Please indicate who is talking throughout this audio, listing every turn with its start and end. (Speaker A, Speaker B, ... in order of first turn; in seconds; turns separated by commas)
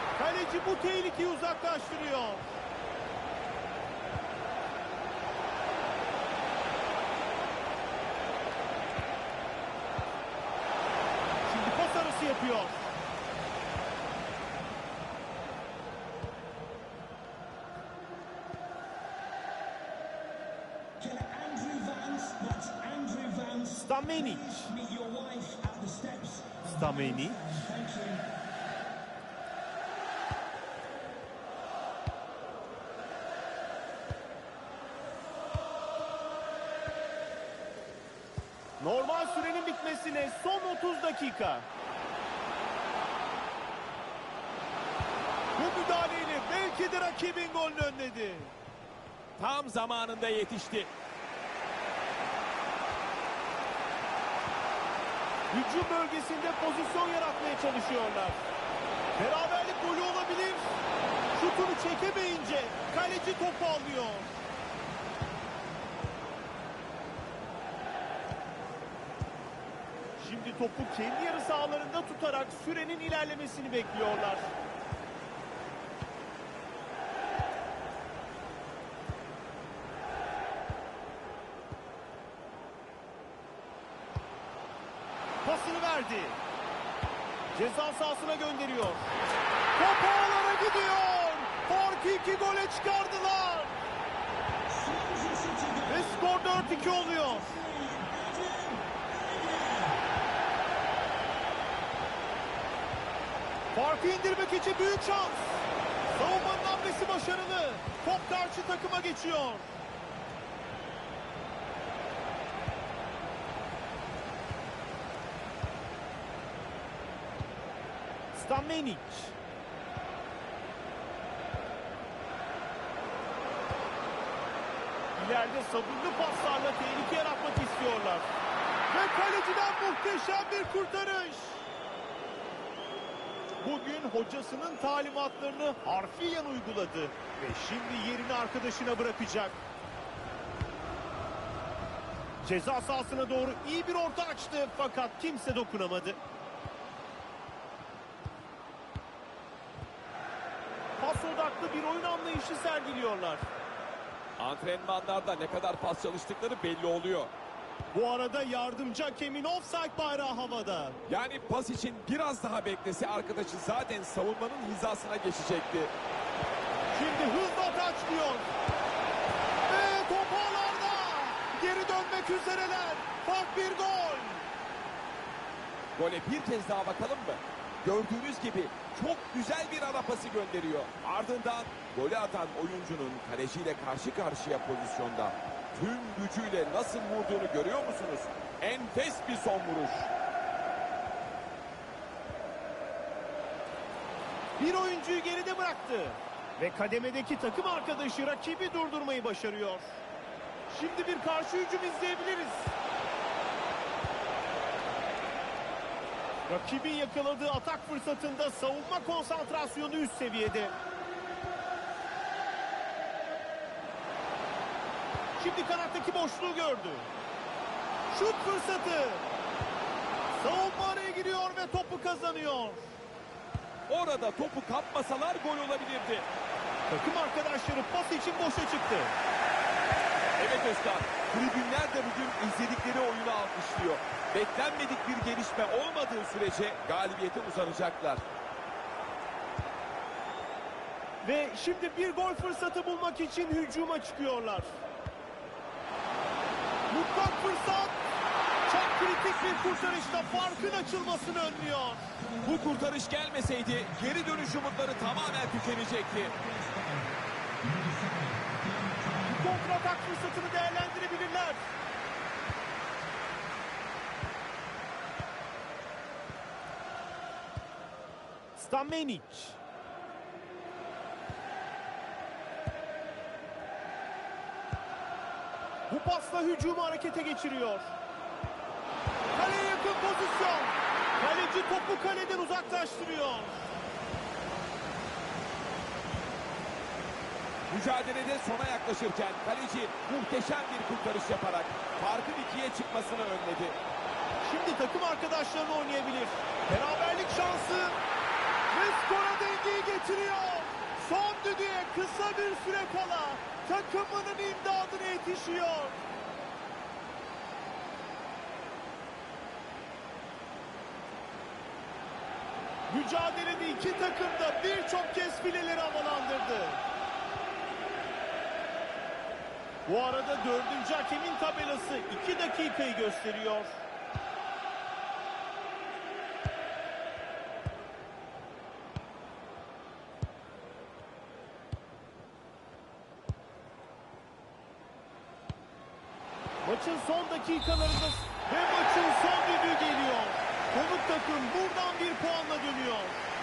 Speaker A: 0.2-2.6, Speaker A: 11.5-12.9, Speaker B: 21.0-28.2, Speaker A: 23.8-24.7, Speaker A: 26.6-27.7, Speaker A: 38.8-41.7, Speaker A: 45.6-48.5, Speaker B: 49.4-50.9, Speaker A: 55.5-58.4, Speaker A: 59.2-60.7, Speaker A: 61.4-64.4, Speaker A: 70.2-74.5, Speaker A: 85.4-86.4, Speaker A: 87.5-89.1, Speaker A: 89.8-93.8, Speaker B: 94.7-99.8, Speaker A: 95.9-97.6, Speaker A: 103.7-109.7, Speaker A: 118.3-119.3, Speaker A: 125.2-128.3, Speaker A: 128.9-131.6, Speaker A: 133.6-139.6, Speaker A: 142.4-146.2, Speaker A: 151.0-153.4, Speaker B: 154.4-157.3, Speaker A: 157.9-161.0, Speaker B: 161.1-165.9, Speaker A: 166.9-168.5, Speaker A: 169.7-174.5, Speaker B: 176.0-190.1, Speaker A: 194.6-200.0, Speaker A: 200.7-202.7, Speaker A: 206.5-210.8, Speaker A: 215.4-217.1, Speaker A: 218.1-219.2, Speaker A: 220.4-222.9, Speaker B: 223.9-226.3, Speaker A: 226.9-229.2, Speaker B: 230.4-238.2, Speaker A: 241.2-244.7, Speaker A: 246.9-248.0, Speaker A: 248.7-252.1, Speaker B: 249.4-251.5, Speaker B: 252.2-256.8, Speaker B: 257.6-259.3, Speaker A: 259.3-261.6, Speaker A: 268.6-269.6, Speaker A: 275.9-277.9, Speaker A: 279.3-283.7, Speaker B: 287.7-293.8, Speaker A: 294.4-298.0, Speaker A: 298.7-306.0, Speaker A: 312.9-316.8, Speaker A: 319.9-323.8, Speaker A: 336.6-343.3